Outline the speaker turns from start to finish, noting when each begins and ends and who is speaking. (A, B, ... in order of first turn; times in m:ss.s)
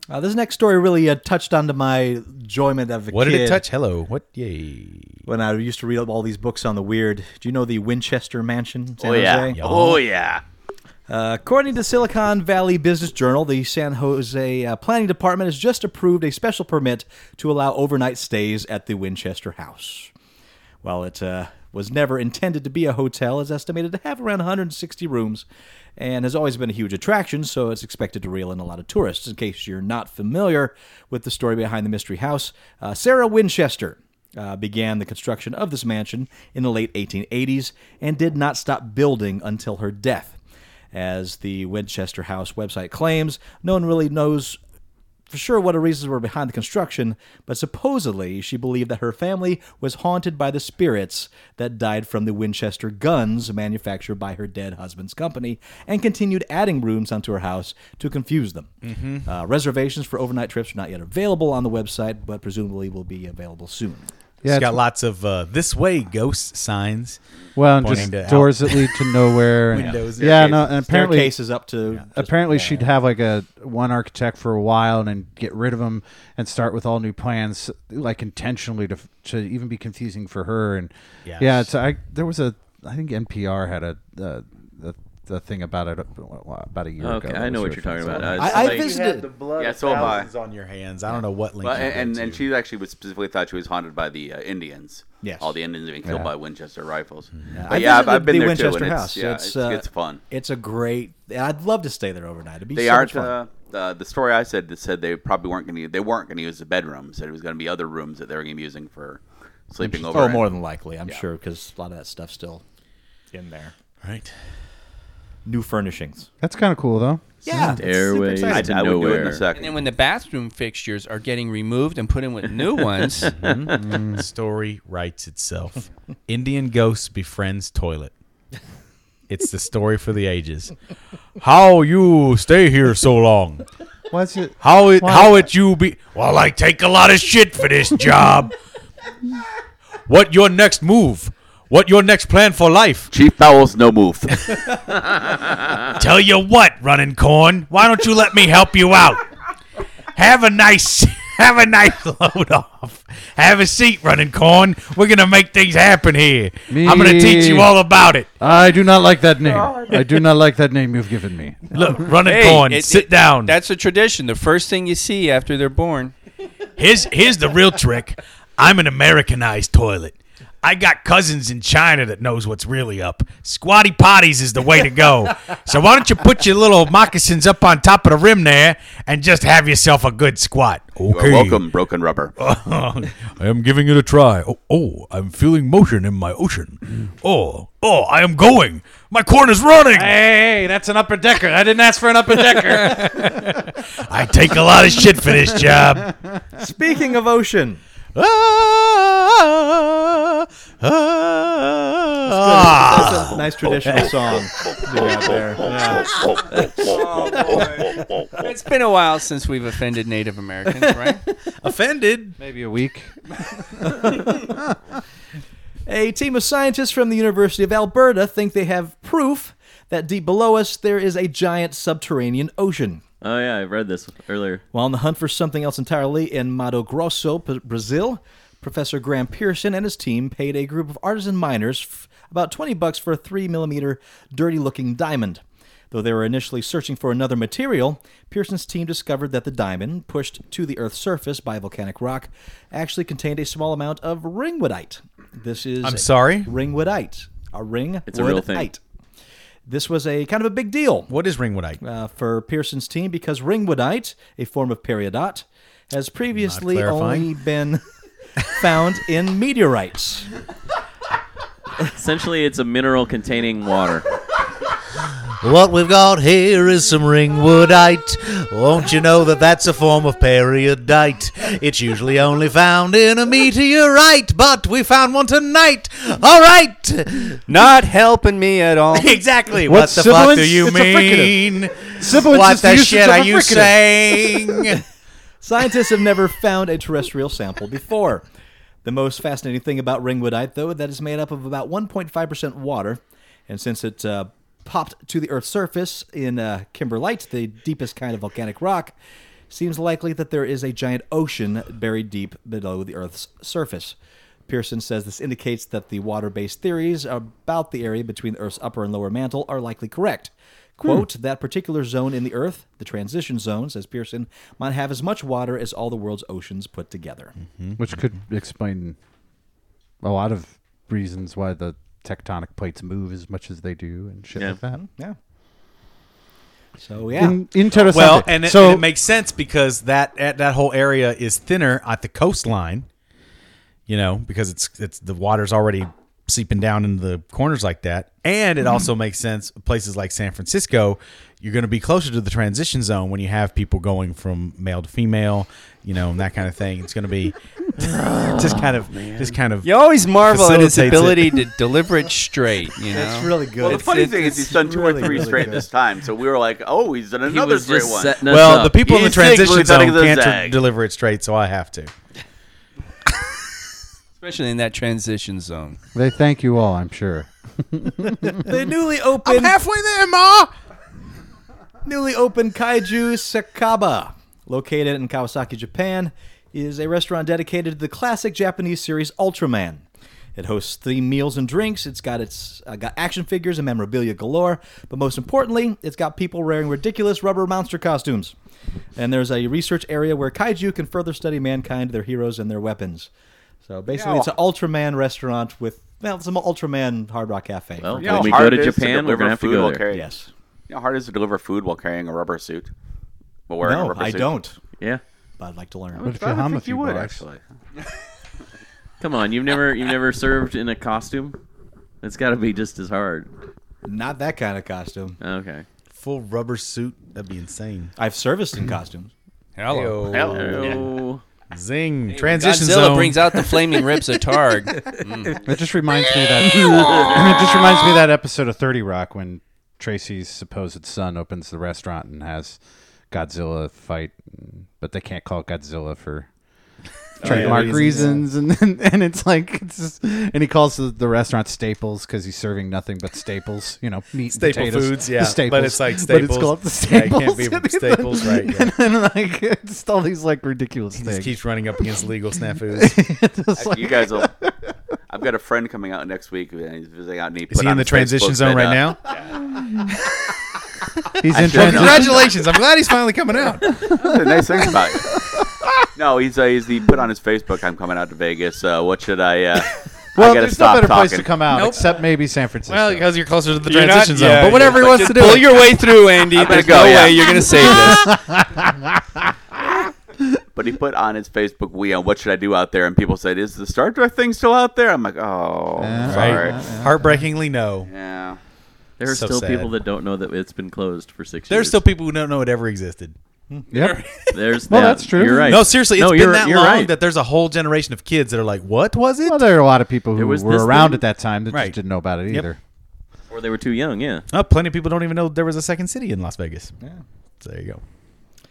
0:00.1-0:03.6 A
0:03.1-0:05.2 B
0:05.2-0:09.6 A
0:09.0-0:10.4 C
0:09.6-0:10.0 B
0:11.1-0:20.1 A
0:20.8-0:25.4 A
0:26.0-0:40.4 A
0:40.9-0:44.6 A
0:45.3-1:04.1 A
0:58.8-0:59.3 B
1:04.4-1:04.8 D
1:04.4-1:08.9 B
1:07.6-1:11.3 D
1:09.7-1:10.8 B
1:10.8-1:12.9 A
1:12.1-1:28.6 D
1:21.2-1:21.7 B
1:27.0-1:28.9 E
1:28.1-1:32.4 B
1:28.4-1:29.4 A
1:29.6-1:30.3 C
1:31.6-1:40.2 C
1:35.2-1:35.6 A
1:37.5-1:43.4 A
1:42.7-1:50.5 C
1:49.8-1:52.6 A
1:53.3-1:53.7 A
1:54.0-1:54.3 B
1:55.4-1:56.3 A
1:56.4-1:57.8 D
1:57.4-1:58.9 A
1:57.6-1:59.4 E
1:58.5-1:59.9 C
1:59.5-2:03.3 F
2:03.3-2:08.1 B
2:03.8-2:04.2 D
2:09.3-2:10.7 B
2:11.4-2:13.6 B
2:14.1-2:15.4 D
2:14.6-2:18.5 B
2:20.1-2:23.1 B
2:23.1-2:24.6 C
2:25.9-2:29.2 B
2:30.1-2:38.3 B
2:36.7-2:37.7 D
2:38.4-2:42.0 D
2:41.7-2:43.5 B
2:42.2-2:46.1 F
2:46.8-3:01.6 B
3:01.1-3:02.4 C
3:02.4-3:10.1 B
3:09.9-3:13.8 D
3:12.5-3:16.1 B
3:15.4-3:15.8 D
3:16.6-3:17.8 A
3:18.1-3:24.1 B
3:22.3-3:27.6 A
3:26.8-3:31.2 F
3:31.6-3:32.4 B
3:32.4-3:34.8 D
3:33.8-3:34.5 A
3:35.8-3:43.0 A
3:43.2-3:44.6 E
3:44.7-4:08.8 A
4:05.8-4:06.5 B
4:08.1-4:08.7 E
4:09.7-4:11.1 A
4:11.1-4:11.8 B
4:11.8-4:17.8 A
4:16.3-4:17.3 B
4:18.5-4:20.3 A
4:21.9-4:24.0 E
4:25.4-4:37.4 B
4:37.5-4:39.2 F
4:38.9-4:44.8 B
4:39.6-4:44.8 D
4:45.4-4:48.2 A
4:48.8-4:58.9 A
4:59.5-5:04.0 A
5:04.5-5:17.4 A
5:17.4-5:17.8 B
5:17.8-5:19.0 D
5:20.0-5:24.8 D
5:24.7-5:25.2 A
5:26.8-5:27.4 A
5:27.2-5:28.8 D
5:27.8-5:32.9 B
5:33.9-5:51.4 B
5:47.8-5:49.4 E
5:49.6-5:54.3 F
5:52.9-5:55.7 A
5:53.6-5:58.2 C
5:55.0-5:55.3 F
5:57.2-5:58.8 E
5:58.2-6:01.9 B
5:58.8-6:00.6 C
6:04.2-6:05.8 F
6:05.9-6:08.4 D
6:08.4-6:09.6 A
6:09.2-6:10.5 B
6:11.8-6:19.8 A
6:20.3-6:28.3 A
6:29.0-6:33.1 A
6:33.6-6:38.5 A
6:37.8-6:39.8 E
6:38.0-6:40.1 C
6:39.9-6:40.3 A
6:40.7-6:42.7 C
6:43.5-6:44.3 C
6:43.6-6:44.6 A
6:45.4-6:46.1 A
6:46.0-6:47.4 C
6:46.0-6:47.2 D
6:49.0-6:51.4 E
6:52.0-6:53.3 E
6:53.8-6:55.2 A
6:55.2-6:55.6 E
6:56.0-6:57.9 B
6:58.0-6:59.1 A
6:59.6-7:00.3 F
6:59.7-7:00.9 B
7:00.1-7:00.9 C
7:00.2-7:01.2 E
7:01.5-7:03.6 B
7:02.1-7:05.4 F
7:05.4-7:12.6 D
7:13.1-7:16.3 D
7:17.2-7:31.3 D
7:17.2-7:18.1 B
7:17.3-7:18.2 A
7:17.7-7:18.0 F
7:24.3-7:28.7 B
7:31.0-7:33.2 B
7:32.7-7:34.5 D
7:33.5-7:34.4 C
7:35.1-7:39.3 C
7:37.5-7:39.0 B
7:41.2-7:42.3 D
7:41.3-7:42.4 C
7:41.4-7:44.0 B
7:43.9-7:45.2 C
7:43.9-7:44.4 D
7:46.0-7:51.4 C
7:50.2-7:53.1 D
7:51.5-7:51.8 B
7:52.7-7:55.7 B
7:53.6-7:58.1 F
7:54.8-7:55.3 C
7:56.3-7:57.4 C
7:57.6-7:58.9 D
8:00.5-8:06.7 C
8:05.8-8:07.0 D
8:06.1-8:07.9 B
8:07.8-8:08.4 C
8:09.0-8:11.8 E
8:09.0-8:09.7 B
8:11.5-8:13.1 B
8:13.7-8:14.0 D
8:14.3-8:16.9 E
8:14.5-8:15.7 D
8:15.4-8:19.4 B
8:19.2-8:22.6 D
8:20.1-8:21.0 E
8:21.5-8:21.7 B
8:23.3-8:24.3 E
8:24.3-8:26.7 B
8:27.4-8:27.8 B